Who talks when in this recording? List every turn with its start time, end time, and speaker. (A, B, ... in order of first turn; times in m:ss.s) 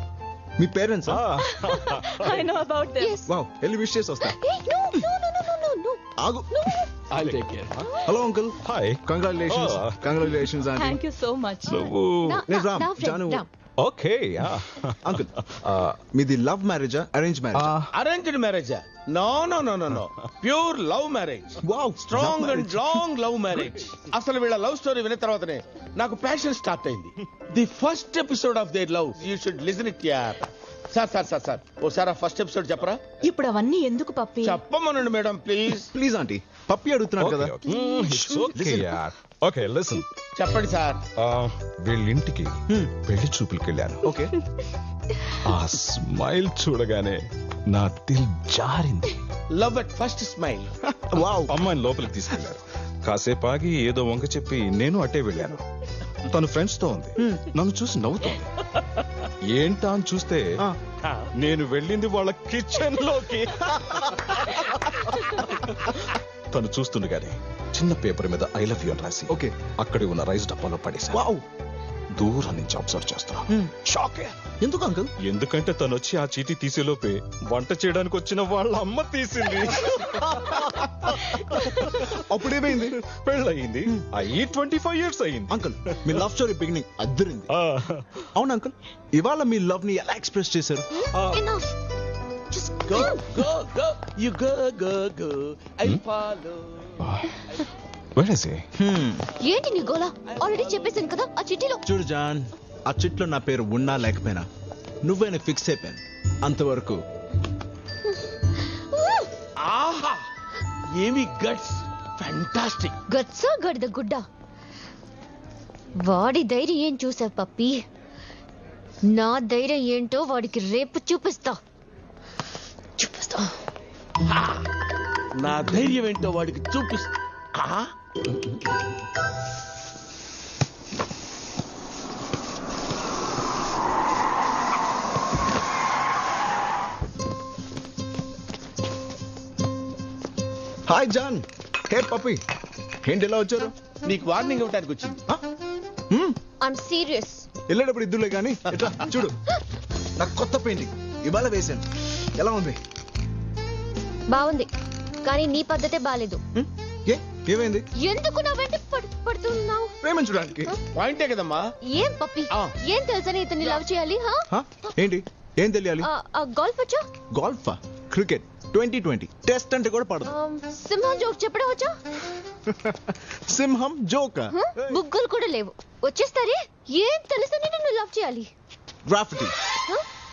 0:00.6-0:01.3 A
0:01.1-0:02.5 B
0:02.2-0:03.2 C
0:03.0-0:03.3 D
0:03.3-0:04.4 A
0:04.2-0:06.0 D
0:06.2-0:06.6 A
0:06.6-0:06.9 D
0:07.2-0:07.9 B
0:08.1-0:11.0 A
0:08.6-0:10.0 B
0:10.8-0:12.0 C
0:11.7-0:12.4 B
0:12.2-0:13.5 D
0:12.5-0:13.4 A
0:13.8-0:15.9 B
0:15.0-0:15.3 A
0:16.0-0:17.9 A
0:17.9-0:33.0 E
0:21.6-0:23.0 A
0:33.2-0:34.6 C
0:34.4-0:35.9 E
0:35.9-0:37.6 A
0:37.2-0:40.1 B
0:38.5-0:39.0 A
0:40.4-0:41.0 E
0:41.2-0:44.1 B
0:44.0-0:44.3 A
0:45.5-0:47.2 B
0:47.7-0:49.1 B
0:49.5-0:50.7 E
0:50.9-0:51.6 A
0:51.5-0:55.6 B
0:56.3-0:58.5 B
0:59.6-1:00.6 B
1:01.4-1:11.2 B
1:11.1-1:11.4 A
1:12.2-1:14.4 B
1:14.6-1:15.1 A
1:15.2-1:22.1 B
1:20.7-1:21.1 A
1:21.7-1:23.0 A
1:23.2-1:26.3 B
1:25.5-1:27.5 A
1:27.5-1:28.0 B
1:28.3-1:30.9 A
1:30.9-1:31.7 D
1:31.2-1:31.4 B
1:32.5-1:33.2 D
1:32.9-1:36.9 E
1:37.0-1:37.4 B
1:38.2-1:38.6 B
1:38.8-1:39.3 A
1:39.4-1:41.8 D
1:41.9-1:44.5 A
1:45.0-1:47.0 A
1:48.9-1:49.3 D
1:49.6-1:50.2 E
1:51.0-1:52.9 E
1:53.1-1:54.2 D
1:56.0-1:57.8 D
1:59.1-2:01.6 D
2:03.0-2:03.6 D
2:04.3-2:04.6 E
2:05.4-2:07.9 E
2:20.9-2:22.4 A
2:23.0-2:23.7 A
2:24.1-2:25.2 E
2:26.1-2:26.4 A
2:26.6-2:27.5 D
2:27.7-2:29.4 A
2:30.2-2:31.8 A
2:32.4-2:32.8 A
2:34.3-2:34.7 D
2:35.2-2:36.4 D
2:36.6-2:37.9 A
2:38.0-2:39.9 D
2:40.0-2:40.7 A
2:41.0-2:41.6 E
2:41.9-2:44.5 D
2:44.5-2:46.1 A
2:46.0-2:47.1 D
2:47.3-2:50.3 A
2:50.3-2:51.9 D
2:52.7-2:55.0 A
2:54.5-2:58.5 D
2:59.1-2:59.5 A